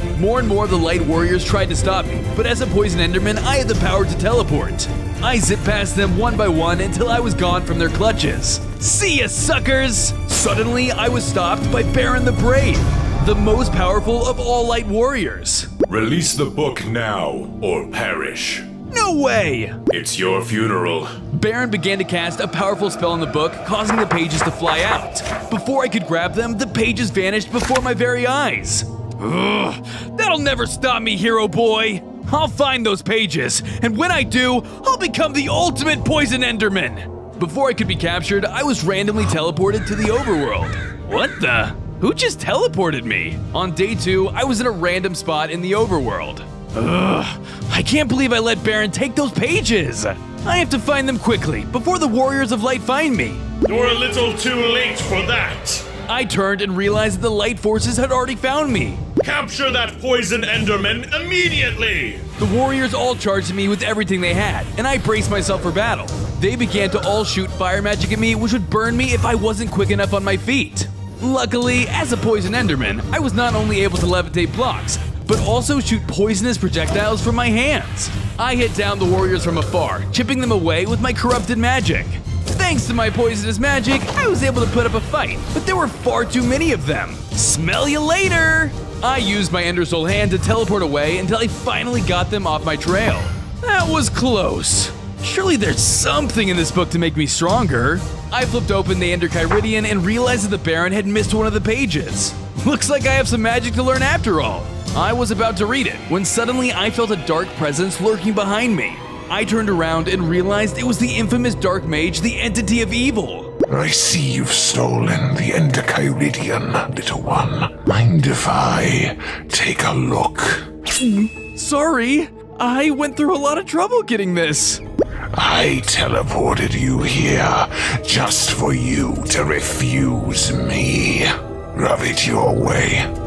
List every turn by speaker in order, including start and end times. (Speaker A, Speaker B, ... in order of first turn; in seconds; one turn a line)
Speaker A: 0.1-15.7
Speaker B: 15.9-18.7
Speaker A: 18.9-19.8
Speaker B: 19.9-21.1
Speaker A: 21.3-53.4
Speaker C: 53.7-55.9
Speaker A: 56.1-59.0
Speaker C: 59.2-62.2
Speaker A: 62.4-113.5
Speaker D: 113.7-120.7
Speaker A: 121.1-124.8
Speaker D: 125.3-133.1